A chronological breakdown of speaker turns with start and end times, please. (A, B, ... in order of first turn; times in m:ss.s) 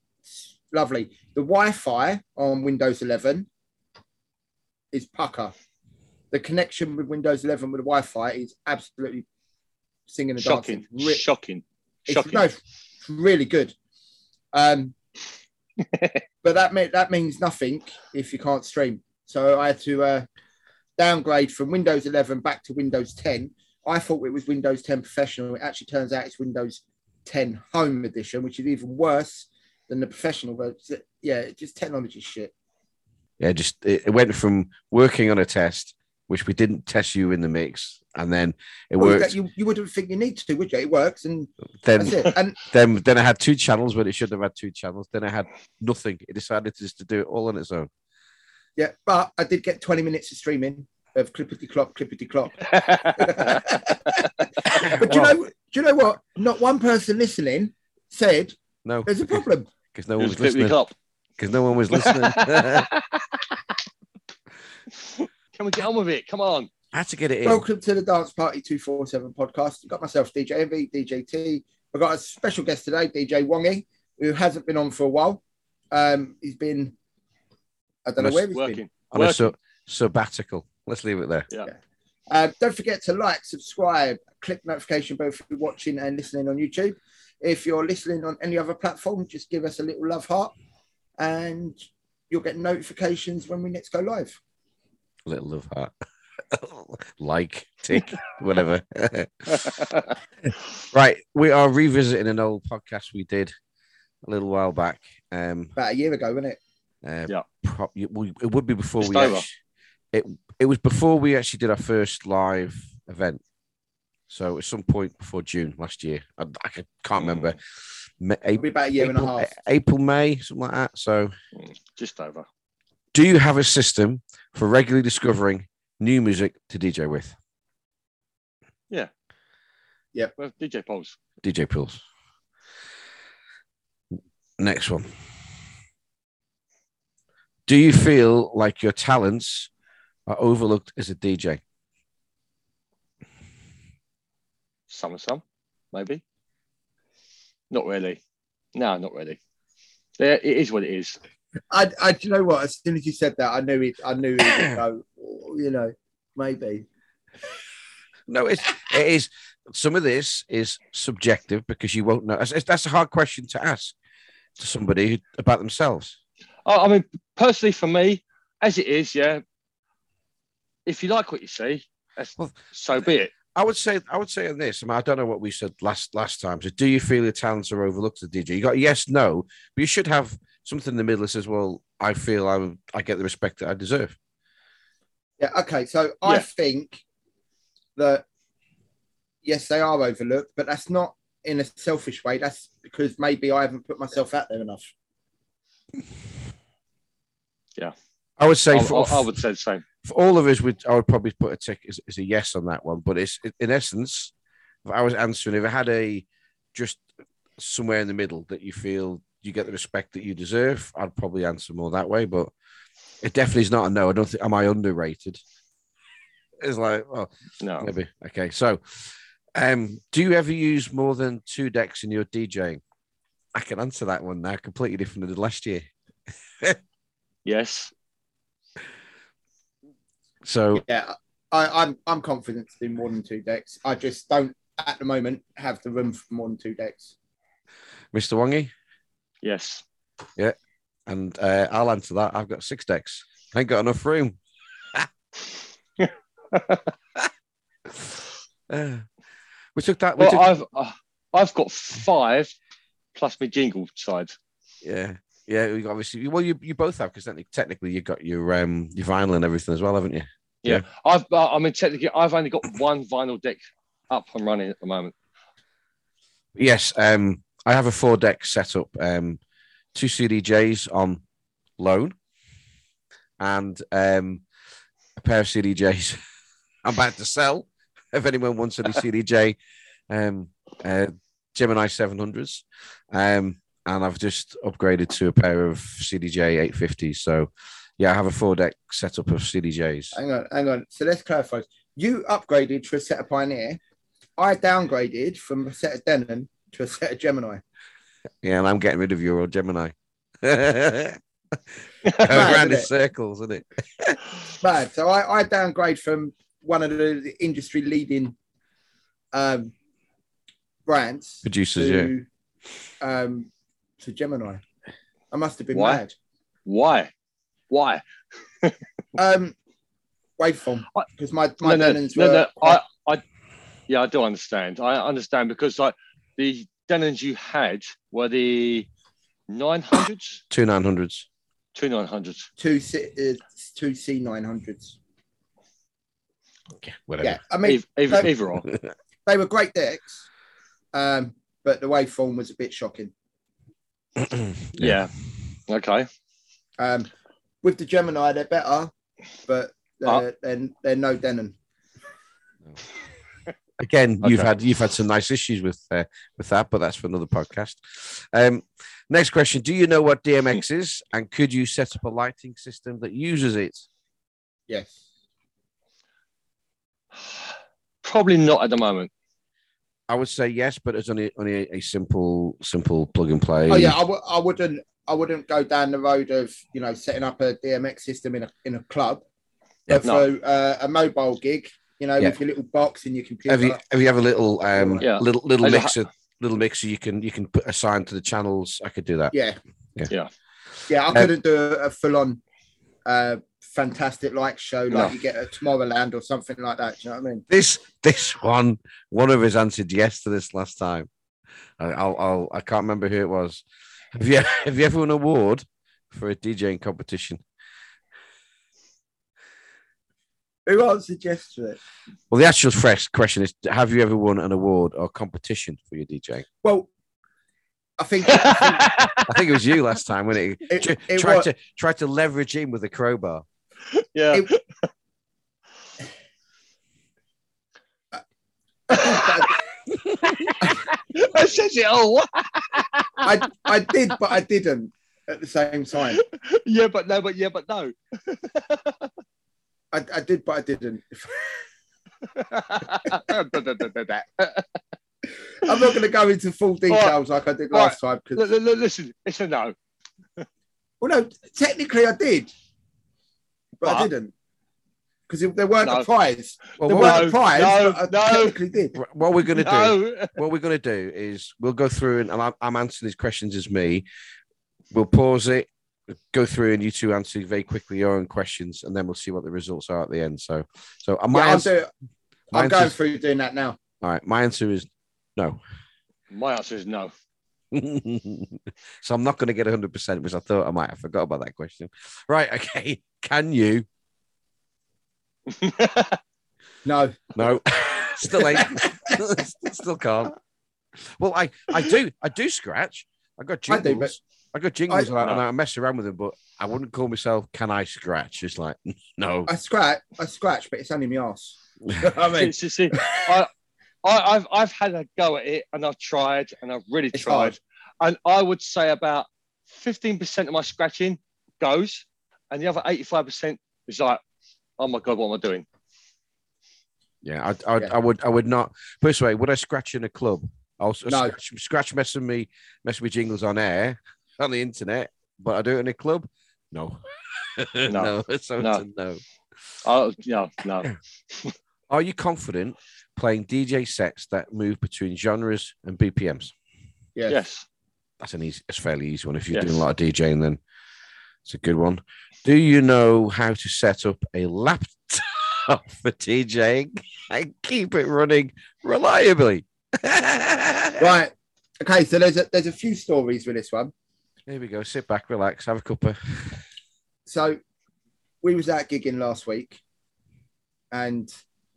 0:00.3-0:03.5 A
0:04.9-0:05.5 A
0:06.3-0:09.3 A
0:10.1-0:11.2 A
0:10.4-0:12.4 B
0:12.1-0:13.8 A
0:14.5-0:15.0 A
0:15.9-0:16.2 B
0:16.4-0:20.3 A
0:21.0-0:32.5 A
0:33.4-0:39.4 C
0:39.0-0:42.6 A
0:41.8-0:47.9 C
0:48.8-0:59.7 A
0:52.7-0:53.6 B
0:54.7-0:55.4 C
0:58.8-0:59.4 C
0:59.9-1:00.8 C
1:00.2-1:00.9 B
1:01.4-1:02.9 C
1:01.9-1:03.5 B
1:05.0-1:06.7 B
1:06.9-1:07.6 C
1:07.4-1:17.0 A
1:18.0-1:18.8 A
1:18.2-1:18.4 C
1:18.5-1:19.5 B
1:19.1-1:21.5 C
1:22.3-1:30.5 A
1:31.2-1:34.4 A
1:35.3-1:35.9 C
1:36.5-1:39.9 C
1:40.9-1:43.5 C
1:44.3-1:45.7 C
1:45.8-1:46.6 A
1:47.0-1:49.5 C
1:49.0-1:49.4 B
1:50.1-1:53.4 C
1:54.3-1:57.6 C
1:58.2-2:01.3 C
1:58.6-1:59.6 A
2:01.6-2:02.5 B
2:03.1-2:07.4 C
2:10.4-2:11.2 B
2:11.4-2:12.0 C
2:14.6-2:15.1 C
2:17.7-2:19.7 C
2:20.3-2:21.6 C
2:24.9-2:25.4 B
2:25.9-2:26.2 B
2:27.7-2:28.2 B
2:28.8-2:29.4 B
2:30.2-2:31.2 B
2:31.7-2:36.9 A
2:34.5-2:34.8 C
2:38.3-2:44.0 C
2:44.6-2:46.2 C
2:46.7-2:49.4 B
2:50.9-2:53.3 B
2:53.6-3:04.2 C
3:05.4-3:07.0 A
3:08.0-3:08.2 A
3:09.4-3:14.9 A
3:18.4-3:19.4 C
3:18.7-3:19.8 B
3:20.0-3:24.3 C
3:24.8-3:27.0 C
3:27.6-3:32.5 C
3:33.2-3:35.4 C
3:36.6-3:39.0 C
3:37.6-3:37.9 B
3:39.6-3:42.8 C
3:43.6-3:45.9 C
3:47.4-3:47.9 B
3:50.4-3:50.8 C
3:50.8-3:57.1 A
3:58.1-3:58.7 C
3:59.4-3:59.8 B
4:01.1-4:04.4 C
4:06.0-4:06.8 B
4:08.7-4:09.1 C
4:09.8-4:10.5 C
4:10.2-4:12.5 B
4:13.2-4:14.3 B
4:14.8-4:20.8 C
4:20.6-4:23.6 B
4:24.1-4:25.1 B
4:26.6-4:29.4 C
4:29.9-4:31.2 C
4:31.8-4:32.2 C
4:33.4-4:34.4 C
4:35.2-4:36.2 C
4:36.8-4:39.6 C
4:40.1-4:50.2 C
4:50.1-4:53.8 A
4:54.4-4:57.6 A
4:58.4-5:01.2 C
5:02.0-5:04.2 C
5:02.2-5:02.9 A
5:04.6-5:08.4 A
5:09.3-5:09.7 A
5:10.9-5:12.3 A
5:11.4-5:12.1 C
5:13.0-5:14.6 A
5:15.3-5:16.2 A
5:15.7-5:16.0 B
5:16.7-5:17.1 B
5:17.7-5:18.0 B
5:19.2-5:19.6 A
5:20.4-5:22.8 A
5:21.6-5:23.2 B
5:23.9-5:28.9 B
5:29.5-5:30.4 B
5:30.5-5:31.3 C
5:31.8-5:32.5 B
5:32.6-5:35.0 A
5:36.8-5:37.4 C
5:37.2-5:38.3 A
5:37.6-5:38.7 B
5:39.3-5:40.2 A
5:40.9-5:43.1 A
5:44.2-5:45.0 C
5:44.8-5:45.1 B
5:45.7-5:46.1 B
5:46.8-5:47.1 A
5:47.6-5:48.9 A
5:49.5-5:51.6 A
5:53.8-6:03.9 C
5:54.2-5:54.5 B
6:04.7-6:05.0 A
6:07.2-6:07.5 B
6:08.0-6:09.1 B
6:10.1-6:14.0 C
6:13.7-6:19.2 A
6:19.9-6:23.8 A
6:23.5-6:29.3 C
6:24.7-6:25.0 A
6:25.0-6:25.9 B
6:29.3-6:29.6 A
6:30.9-6:32.4 A
6:33.0-6:37.4 A
6:37.5-6:41.1 C
6:41.8-6:47.4 C
6:50.7-6:51.8 A
6:52.3-6:56.5 C
6:56.6-6:56.9 A
6:58.0-6:59.2 A
6:58.3-6:59.3 B
6:59.3-7:03.4 C
7:00.7-7:01.5 A
7:04.0-7:04.6 B
7:08.9-7:09.6 A
7:08.9-7:09.6 B
7:10.2-7:13.5 B
7:13.2-7:16.2 A
7:16.1-7:19.1 B
7:19.9-7:21.4 A
7:22.3-7:24.7 B
7:25.6-7:28.4 A
7:26.9-7:27.2 B
7:27.7-7:29.8 B
7:31.0-7:32.5 A
7:33.8-7:34.1 B
7:33.8-7:34.3 A
7:35.3-7:39.0 A
7:35.8-7:36.1 B
7:36.8-7:37.3 C
7:36.8-7:38.6 B
7:39.0-7:44.1 C
7:39.5-7:40.4 B
7:44.9-7:45.7 C
7:46.3-7:51.7 C
7:51.3-7:51.9 A
7:52.5-7:53.8 A
7:52.5-7:52.9 C
7:54.0-7:55.6 C
7:56.3-7:57.1 B
7:57.7-8:03.9 C
8:05.5-8:06.2 B
8:06.8-8:07.6 A
8:07.4-8:10.4 C
8:08.3-8:09.2 A
8:11.2-8:19.5 C
8:13.7-8:14.1 A
8:14.9-8:15.2 A
8:19.5-8:23.4 A
8:22.3-8:23.5 B
8:24.0-8:34.2 B
8:27.1-8:27.6 A
8:34.8-8:35.6 B
8:37.2-8:49.2 C
8:41.1-8:41.4 A
8:47.9-8:48.8 B
8:49.8-8:51.5 B
8:51.9-8:56.5 C
8:57.2-8:57.4 A
8:57.3-8:57.6 B
8:58.2-9:00.6 C
8:59.5-8:59.8 B
9:01.4-9:11.1 C
9:11.0-9:13.9 A
9:14.5-9:16.6 C
9:17.3-9:17.6 A
9:18.4-9:19.8 A
9:20.9-9:21.3 A